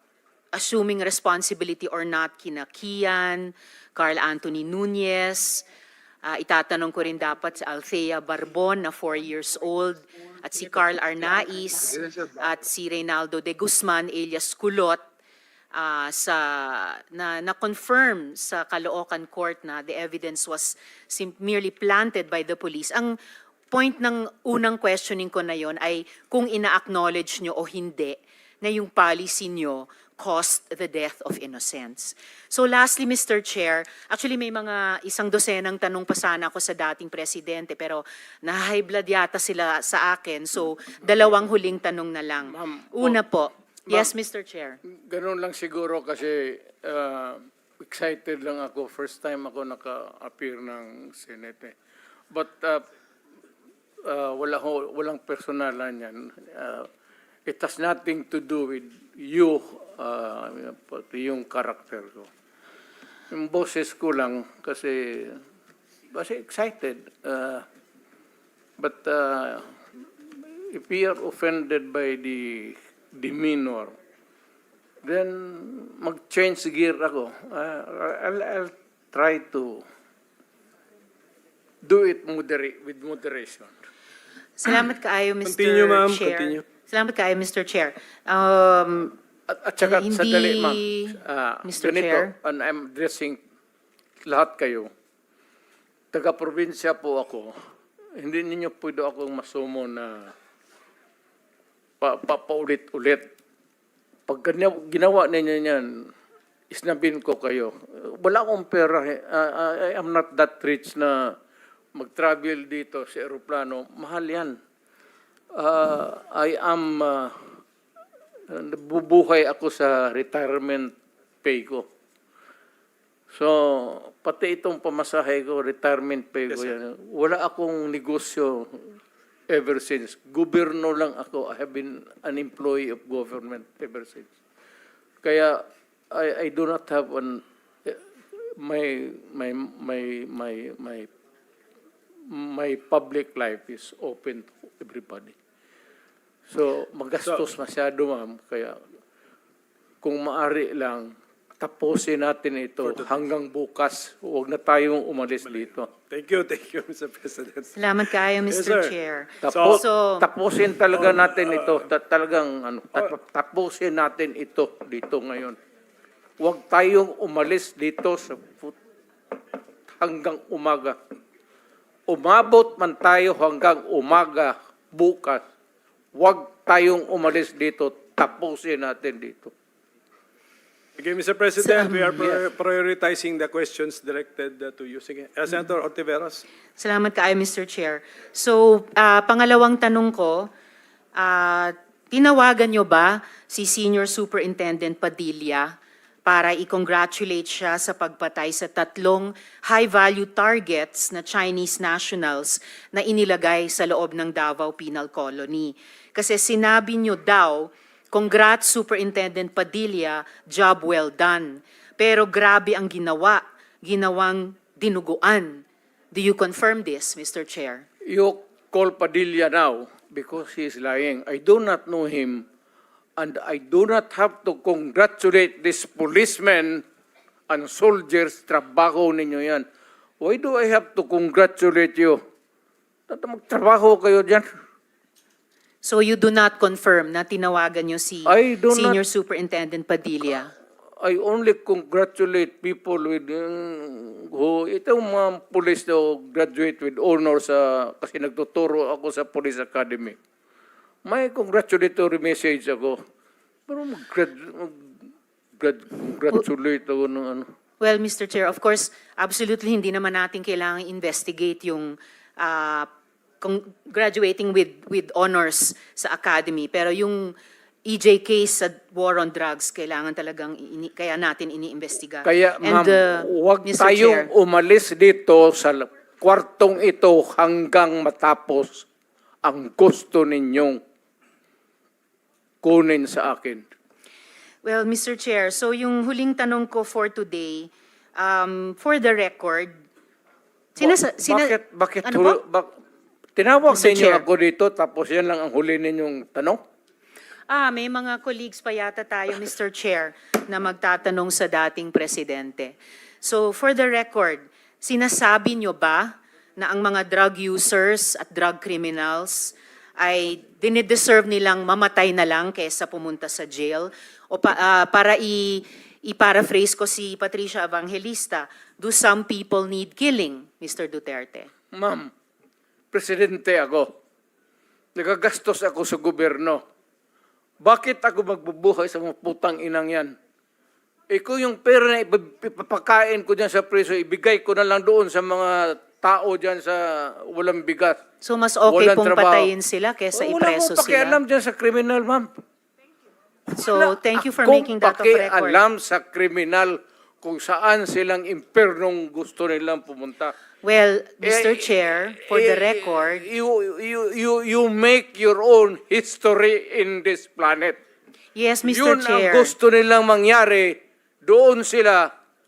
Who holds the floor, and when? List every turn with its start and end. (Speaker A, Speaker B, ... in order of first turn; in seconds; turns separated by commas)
Speaker A: 0.5-5.7, Speaker A: 6.2-15.0, Speaker A: 15.7-23.1, Speaker A: 23.7-44.8, Speaker B: 42.5-43.2, Speaker B: 45.1-51.8, Speaker B: 52.3-52.8, Speaker B: 54.0-56.9, Speaker B: 57.5-62.3, Speaker B: 63.3-65.4, Speaker B: 66.1-67.7, Speaker B: 68.8-69.7, Speaker B: 70.4-73.9, Speaker B: 75.0-79.8, Speaker B: 81.8-83.7, Speaker A: 84.6-89.2, Speaker C: 85.4-86.6, Speaker B: 89.5-93.4, Speaker A: 89.8-92.3, Speaker B: 94.3-94.9, Speaker B: 96.1-97.5, Speaker B: 98.2-100.3, Speaker B: 102.0-103.3, Speaker B: 104.3-106.1, Speaker B: 106.7-111.3, Speaker B: 112.0-114.6, Speaker B: 115.5-117.4, Speaker B: 118.5-121.8, Speaker B: 123.3-128.8, Speaker B: 129.5-134.3, Speaker B: 135.2-138.0, Speaker B: 138.6-141.1, Speaker B: 142.3-145.3, Speaker B: 146.5-148.8, Speaker B: 150.0-155.9, Speaker C: 152.8-153.1, Speaker C: 156.1-157.7, Speaker A: 157.8-160.3, Speaker C: 158.5-158.9, Speaker B: 159.4-165.6, Speaker C: 159.5-159.8, Speaker C: 161.1-161.8, Speaker B: 166.4-168.8, Speaker B: 169.9-171.0, Speaker B: 172.1-175.4, Speaker B: 176.2-179.5, Speaker C: 181.0-186.4, Speaker A: 181.6-182.2, Speaker A: 186.8-190.5, Speaker A: 191.2-195.7, Speaker A: 196.3-217.9, Speaker B: 218.1-222.4, Speaker B: 223.2-226.8, Speaker B: 227.5-229.7, Speaker B: 230.2-232.2, Speaker B: 233.1-234.5, Speaker A: 235.8-240.5, Speaker B: 238.3-239.0, Speaker B: 241.0-250.2, Speaker B: 251.1-253.0, Speaker B: 253.7-254.9, Speaker B: 255.6-257.5, Speaker A: 257.8-262.9, Speaker A: 263.4-267.4, Speaker A: 267.9-274.3, Speaker B: 272.2-278.9, Speaker B: 279.4-280.8, Speaker B: 282.6-283.6, Speaker A: 284.6-289.8, Speaker A: 290.8-292.4, Speaker B: 290.8-292.7, Speaker B: 293.4-296.6, Speaker A: 293.7-294.2, Speaker A: 297.5-321.5, Speaker B: 321.7-322.1, Speaker B: 322.9-323.9, Speaker B: 324.9-326.6, Speaker B: 327.6-330.1, Speaker B: 331.1-338.0, Speaker A: 338.2-341.2, Speaker B: 338.7-339.5, Speaker B: 340.1-342.3, Speaker B: 343.5-350.4, Speaker A: 343.6-345.6, Speaker A: 350.6-353.2, Speaker B: 351.2-357.8, Speaker A: 358.4-359.5, Speaker B: 358.6-362.1